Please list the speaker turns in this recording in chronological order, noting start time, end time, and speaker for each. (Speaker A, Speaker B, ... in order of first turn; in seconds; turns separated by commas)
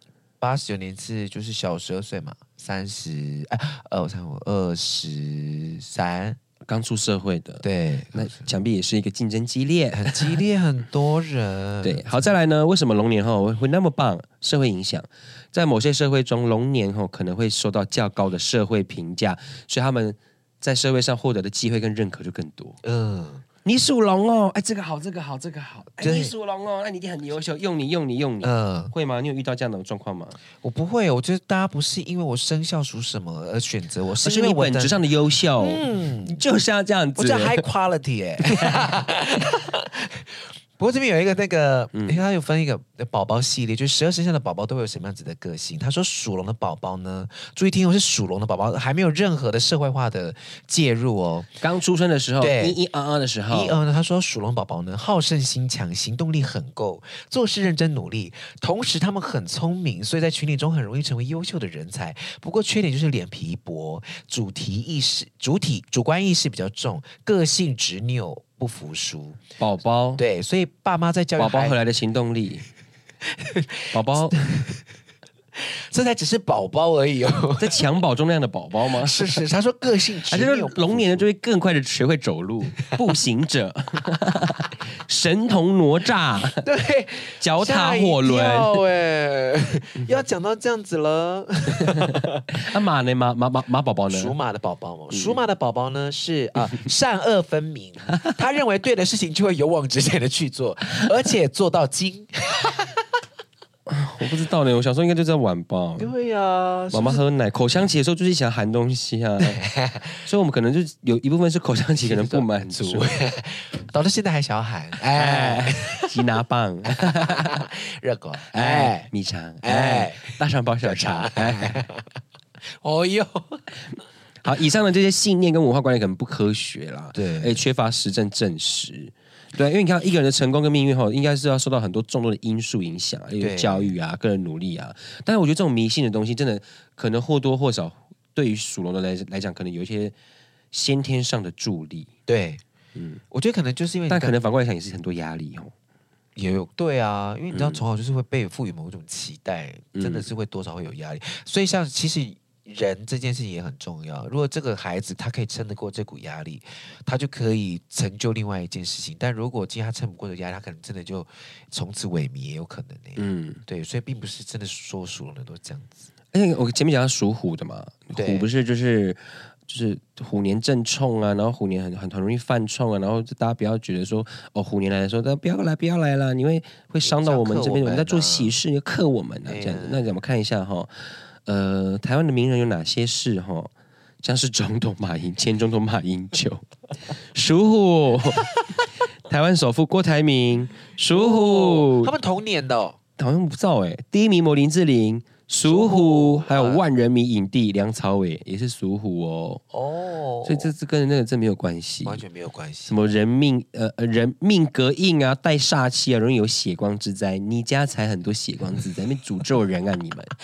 Speaker A: 0.4-6.4, Speaker B: 6.6-10.4, Speaker A: 7.6-8.5, Speaker A: 9.9-12.3, Speaker B: 11.8-22.8, Speaker A: 22.8-23.4, Speaker B: 23.6-30.4, Speaker A: 26.0-26.3, Speaker A: 28.4-28.9, Speaker A: 30.6-35.0, Speaker B: 34.2-37.6, Speaker A: 35.6-36.4, Speaker A: 37.1-51.5, Speaker B: 41.9-42.2, Speaker B: 51.6-53.8, Speaker A: 52.4-52.8, Speaker A: 53.5-69.4, Speaker B: 69.6-70.2, Speaker A: 70.2-71.8, Speaker B: 71.4-72.7, Speaker A: 73.3-74.8, Speaker B: 73.9-74.4, Speaker A: 75.6-77.8, Speaker B: 77.6-79.4, Speaker A: 79.0-81.2, Speaker B: 80.3-86.6, Speaker A: 86.6-92.7, Speaker B: 87.4-88.8, Speaker B: 92.5-94.3, Speaker A: 94.1-103.0, Speaker B: 95.1-95.4, Speaker B: 103.9-106.1, Speaker A: 106.0-107.2, Speaker B: 106.9-109.6, Speaker A: 109.4-110.2, Speaker B: 110.2-113.1, Speaker A: 112.0-116.1, Speaker B: 115.0-117.6, Speaker A: 116.9-119.1, Speaker B: 118.5-121.8, Speaker A: 119.6-122.0, Speaker A: 122.8-123.8, Speaker B: 124.4-140.1, Speaker A: 127.1-127.6, Speaker A: 133.4-133.9, Speaker B: 140.7-142.1, Speaker A: 142.3-142.6, Speaker B: 142.9-143.2, Speaker A: 143.3-144.3, Speaker B: 144.1-145.7, Speaker A: 146.3-166.1, Speaker B: 147.5-147.8, Speaker B: 149.9-150.3, Speaker B: 163.2-163.6, Speaker B: 166.3-183.7, Speaker A: 168.1-168.5, Speaker A: 177.0-178.6, Speaker A: 179.5-180.1, Speaker B: 184.2-186.6, Speaker B: 187.2-188.5, Speaker B: 189.2-192.1, Speaker A: 191.1-193.0, Speaker B: 193.2-199.6, Speaker A: 195.6-196.8, Speaker A: 199.7-200.7, Speaker B: 200.4-202.2, Speaker A: 202.0-203.0, Speaker B: 202.9-210.3